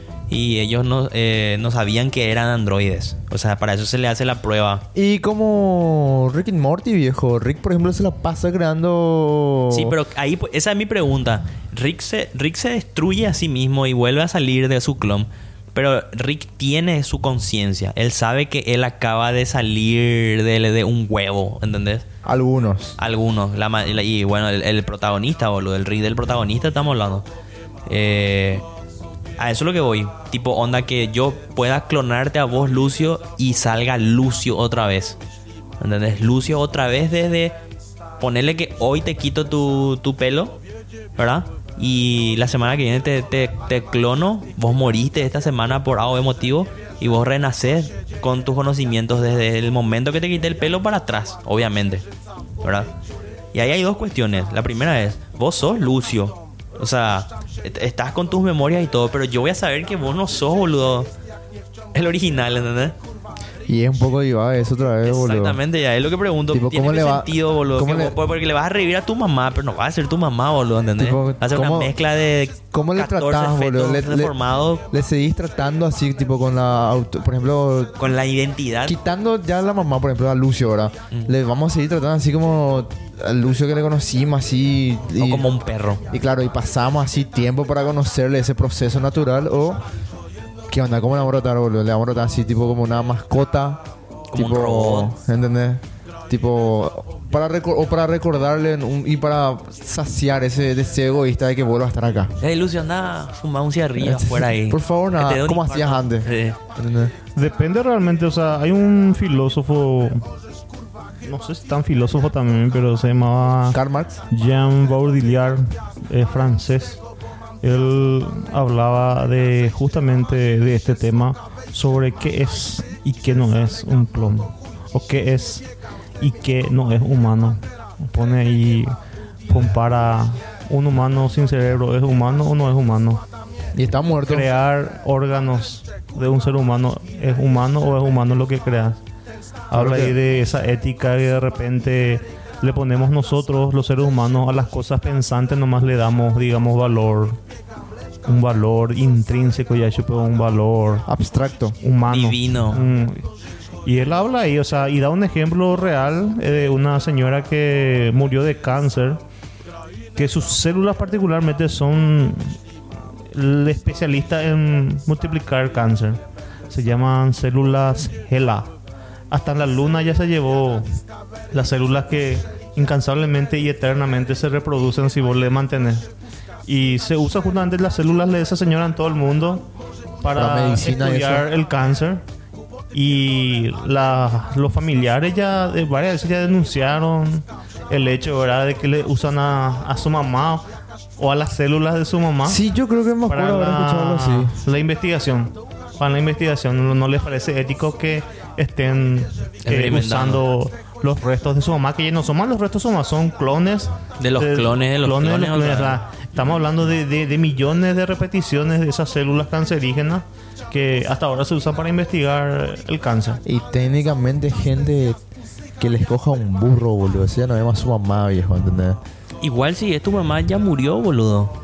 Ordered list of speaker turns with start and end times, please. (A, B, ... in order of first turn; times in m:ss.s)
0:00.3-0:04.8 A
0:05.0-0:10.0 B
0:09.7-0:22.1 A
0:22.2-0:23.0 B
0:23.0-0:27.3 A
0:27.9-0:28.6 A
0:29.4-0:35.2 A
0:35.8-0:37.6 A
0:38.2-0:40.6 A
0:41.2-0:52.0 A
0:52.6-0:52.9 A
0:53.5-1:01.1 A
1:01.9-1:03.0 A
1:03.7-1:05.6 B
1:05.0-1:14.9 A
1:06.5-1:08.2 B
1:11.0-1:11.9 B
1:12.7-1:14.3 B
1:14.9-1:18.0 B
1:18.0-1:19.0 A
1:18.8-1:25.5 B
1:25.2-1:26.0 A
1:26.1-1:29.8 B
1:30.7-1:33.8 B
1:34.3-1:35.1 A
1:34.3-1:42.3 B
1:42.4-1:46.6 A
1:44.0-1:47.1 B
1:47.4-1:50.3 C
1:51.2-1:53.8 C
1:53.7-1:54.2 B
1:54.3-1:57.0 C
1:57.6-2:05.7 C
2:06.2-2:08.9 C
2:09.5-2:13.2 C
2:13.8-2:14.5 B
2:14.3-2:19.0 C
2:19.7-2:27.4 C
2:19.7-2:20.2 B
2:28.2-2:31.0 C
2:31.1-2:31.8 B
2:31.8-2:33.3 C
2:32.1-2:32.8 A
2:33.8-2:39.2 C
2:40.2-2:42.6 C
2:43.3-2:48.7 C
2:49.3-2:51.0 C
2:51.5-2:56.1 C
2:56.6-2:59.7 C
3:00.2-3:02.2 C
3:00.4-3:01.5 B
3:02.9-3:10.7 C
3:11.2-3:12.6 C
3:12.5-3:14.5 B
3:13.3-3:33.4 C
3:19.6-3:20.4 A
3:24.2-3:26.0 A
3:33.5-3:35.2 B
3:35.8-3:39.0 B
3:39.4-3:41.6 A